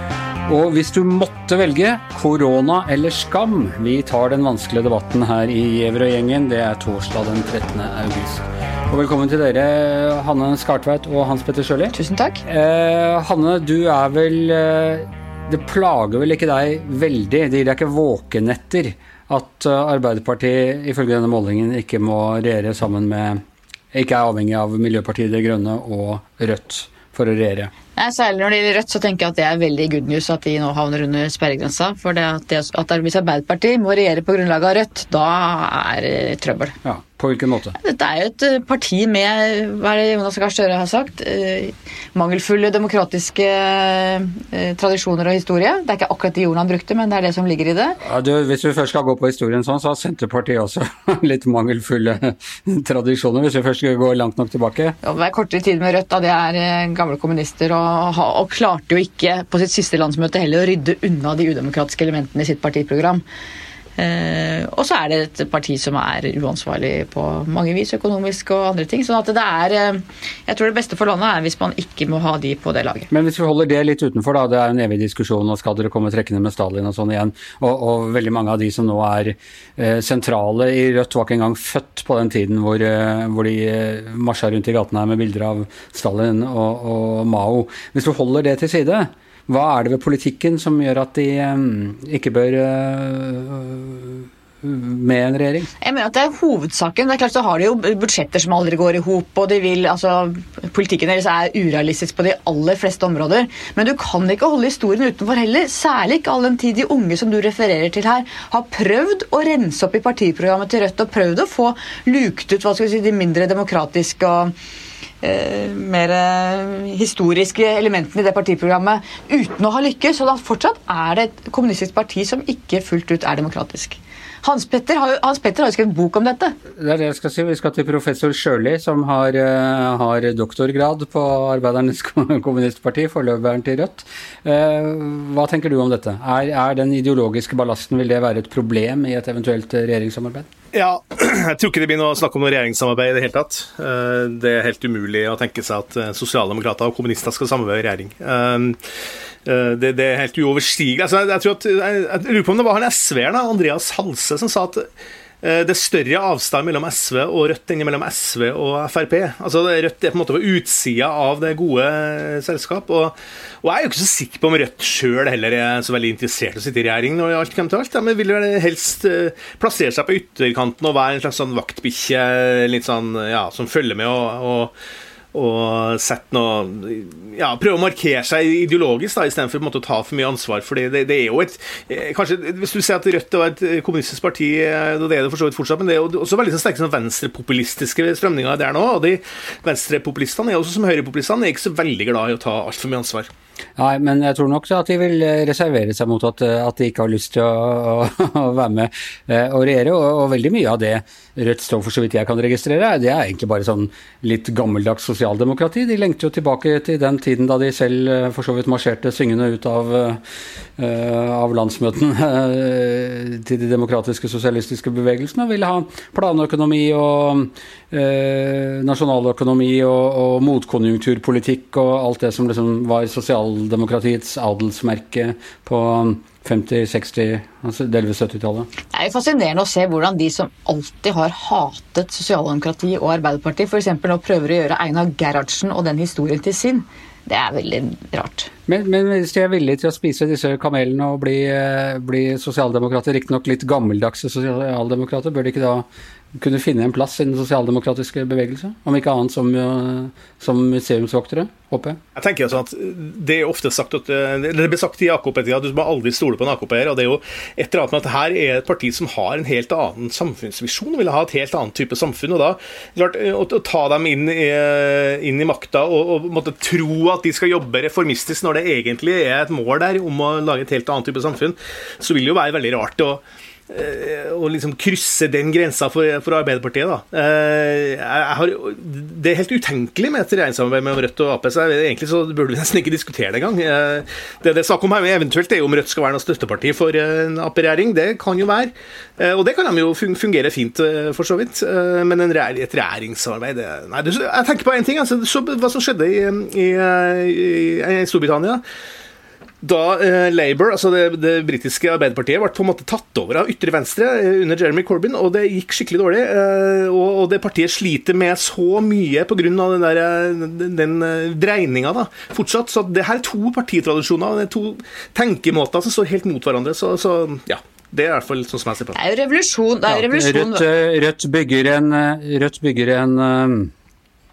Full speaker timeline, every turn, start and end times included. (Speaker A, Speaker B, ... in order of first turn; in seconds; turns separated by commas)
Speaker A: 0.5-11.9, Speaker B: 11.9-12.4, Speaker A: 12.5-23.4, Speaker A: 23.9-27.7, Speaker B: 27.9-36.8, Speaker A: 36.8-37.8, Speaker B: 37.8-48.0, Speaker A: 48.0-55.0, Speaker B: 55.0-63.2, Speaker B: 64.0-73.1, Speaker A: 73.1-95.7, Speaker B: 95.8-114.5, Speaker B: 115.2-126.5, Speaker A: 126.8-140.5, Speaker C: 140.7-148.8, Speaker C: 149.5-154.8, Speaker C: 155.4-174.7, Speaker C: 175.3-193.3, Speaker A: 193.8-210.2, Speaker A: 210.8-228.7, Speaker B: 228.9-238.5, Speaker A: 238.7-245.9, Speaker A: 246.4-252.0, Speaker C: 252.2-298.6, Speaker C: 299.6-319.0, Speaker B: 318.9-320.7, Speaker A: 319.9-323.7